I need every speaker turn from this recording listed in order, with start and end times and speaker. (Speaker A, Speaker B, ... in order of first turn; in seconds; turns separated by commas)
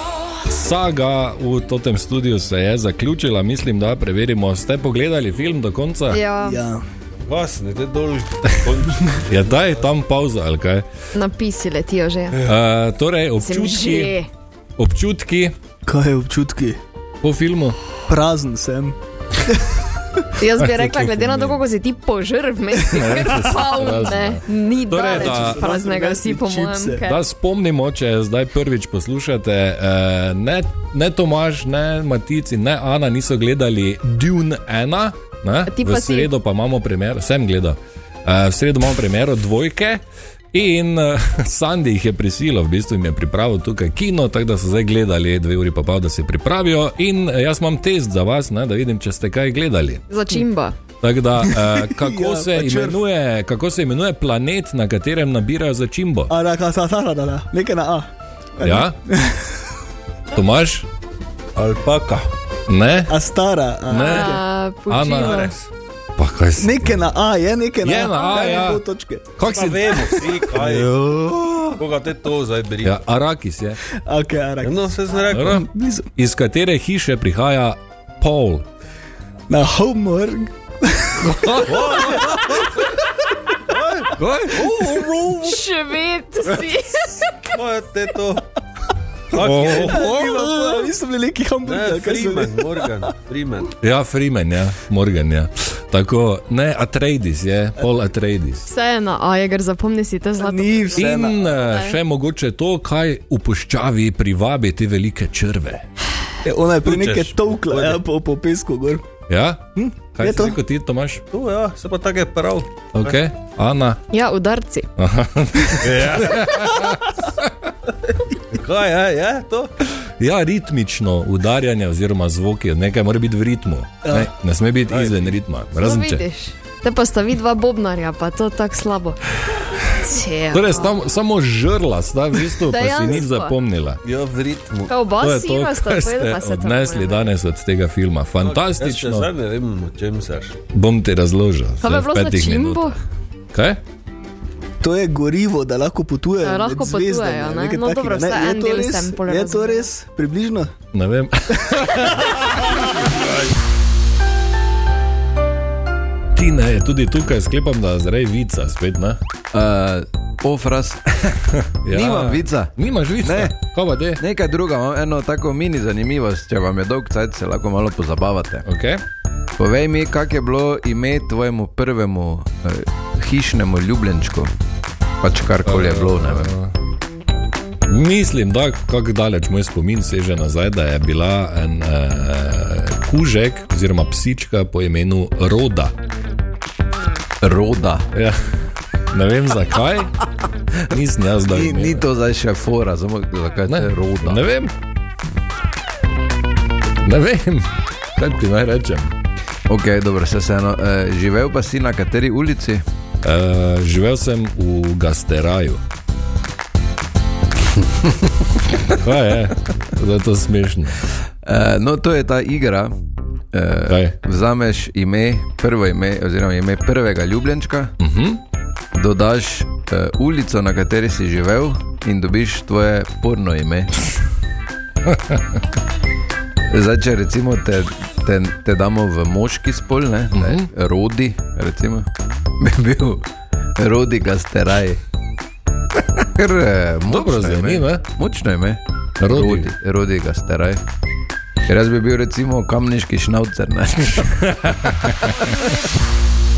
Speaker A: 0.5-6.2, Speaker B: 6.1-6.6, Speaker C: 6.4-6.8, Speaker D: 7.3-9.6, Speaker A: 9.2-10.8, Speaker B: 11.1-12.4, Speaker A: 12.4-14.2, Speaker B: 13.4-14.3, Speaker A: 14.8-15.5, Speaker C: 15.9-16.8, Speaker A: 17.2-17.8, Speaker C: 18.1-19.0, Speaker B: 20.4-27.2, Speaker A: 20.6-21.6, Speaker A: 22.9-25.6, Speaker C: 25.1-27.0, Speaker A: 27.0-50.0, Speaker B: 35.7-36.3, Speaker B: 50.1-50.8, Speaker A: 51.0-56.3, Speaker C: 51.6-53.0, Speaker C: 56.3-59.4, Speaker A: 58.6-59.0, Speaker A: 60.3-60.9, Speaker D: 61.5-62.3, Speaker A: 62.7-63.1, Speaker C: 63.1-64.4, Speaker B: 63.9-65.5, Speaker A: 63.9-65.5, Speaker A: 66.2-67.0, Speaker C: 66.6-69.3, Speaker A: 67.8-68.8, Speaker B: 68.1-68.7, Speaker A: 69.3-70.1, Speaker D: 69.4-71.0, Speaker C: 70.0-71.7, Speaker D: 71.8-73.0, Speaker A: 72.8-73.8, Speaker C: 74.0-74.9, Speaker D: 74.6-75.6, Speaker A: 75.3-78.7, Speaker C: 75.5-76.1, Speaker C: 79.5-81.3, Speaker A: 81.2-82.1, Speaker D: 81.7-82.7, Speaker C: 82.3-82.7, Speaker D: 83.7-85.5, Speaker A: 84.2-85.0, Speaker C: 84.7-85.5, Speaker B: 85.5-87.2, Speaker D: 87.5-88.4, Speaker D: 89.3-90.2, Speaker A: 89.3-90.8, Speaker C: 89.4-93.1, Speaker D: 91.6-93.7, Speaker A: 93.8-98.7, Speaker B: 98.7-102.0, Speaker C: 100.4-101.5, Speaker A: 101.0-105.8, Speaker C: 106.4-109.0, Speaker D: 106.8-108.0, Speaker A: 109.3-111.2, Speaker C: 109.8-110.6, Speaker D: 111.3-113.2, Speaker A: 112.9-114.0, Speaker B: 114.1-114.9, Speaker A: 115.0-117.1, Speaker D: 115.8-117.0, Speaker D: 118.5-119.7, Speaker A: 120.2-126.2, Speaker D: 124.8-125.4, Speaker B: 125.8-129.3, Speaker B: 130.0-130.9, Speaker A: 130.5-134.0, Speaker B: 132.6-133.5, Speaker D: 134.0-135.0, Speaker B: 134.9-137.3, Speaker A: 135.2-139.3, Speaker D: 138.4-140.6, Speaker A: 140.7-142.9, Speaker B: 141.8-142.9, Speaker A: 143.5-143.8, Speaker C: 144.8-150.7, Speaker B: 146.4-149.9, Speaker A: 150.9-153.3, Speaker A: 156.3-159.2, Speaker E: 159.5-163.6, Speaker A: 161.8-164.2, Speaker E: 164.2-168.7, Speaker A: 168.7-169.0, Speaker E: 169.6-174.5, Speaker E: 175.2-176.5, Speaker A: 175.6-176.7, Speaker A: 177.9-185.9, Speaker E: 187.4-188.1, Speaker A: 188.1-188.4, Speaker A: 189.1-190.2, Speaker A: 190.9-192.1, Speaker E: 191.4-194.4, Speaker A: 193.7-194.7, Speaker A: 197.0-197.7, Speaker A: 198.2-199.1, Speaker E: 199.7-202.8, Speaker A: 203.2-205.8, Speaker A: 209.0-211.0, Speaker E: 211.4-212.9, Speaker E: 213.5-217.9, Speaker A: 213.9-214.2, Speaker A: 218.0-218.4, Speaker E: 218.9-224.0, Speaker E: 226.7-232.1, Speaker A: 230.3-230.7, Speaker E: 232.6-233.2, Speaker E: 233.8-235.0, Speaker E: 236.3-240.8, Speaker A: 237.1-238.0, Speaker A: 239.2-239.7, Speaker E: 241.7-244.4, Speaker A: 244.4-245.1